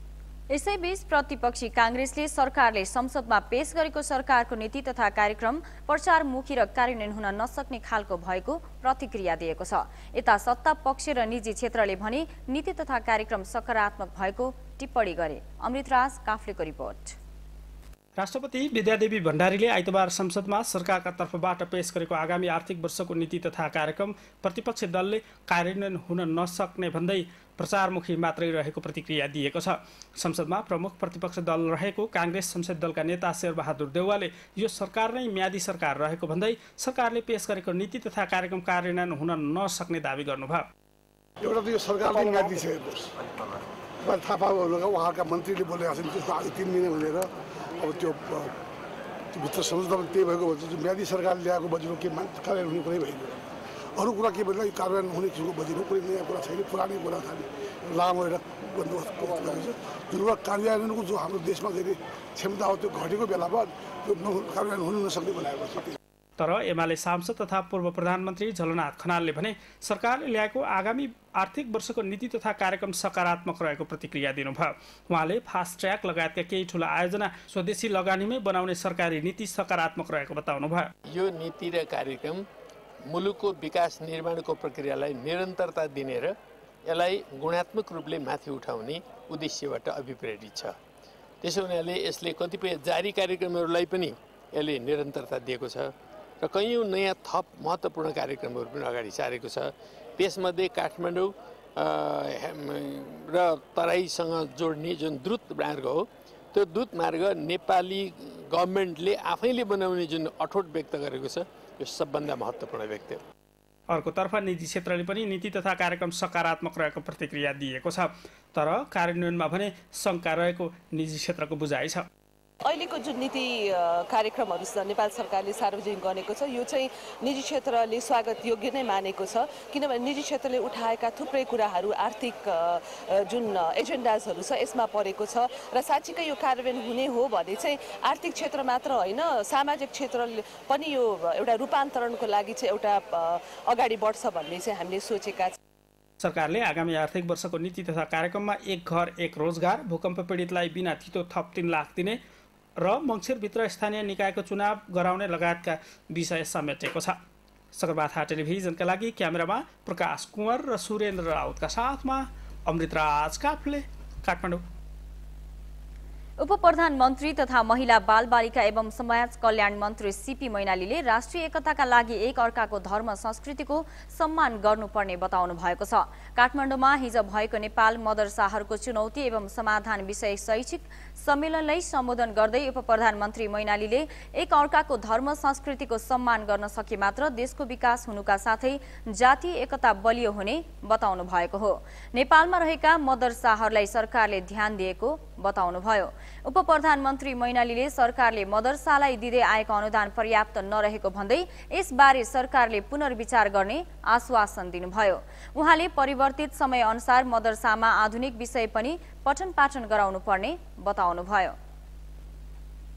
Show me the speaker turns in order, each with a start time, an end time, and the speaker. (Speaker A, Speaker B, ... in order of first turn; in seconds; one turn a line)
Speaker A: 0.5-17.2
Speaker B: 18.2-40.7
Speaker C: 41.4-43.1
Speaker C: 44.0-48.5
Speaker C: 49.3-53.4
Speaker C: 54.0-66.0
Speaker B: 66.4-80.9
Speaker D: 81.1-82.4
Speaker D: 83.1-86.4
Speaker D: 86.9-90.8
Speaker D: 91.4-113.2
Speaker B: 113.9-122.1
Speaker E: 122.7-145.6
Speaker B: 146.2-152.2
Speaker B: 152.8-157.2
Speaker B: 157.7-164.6
Speaker A: 166.4-211.6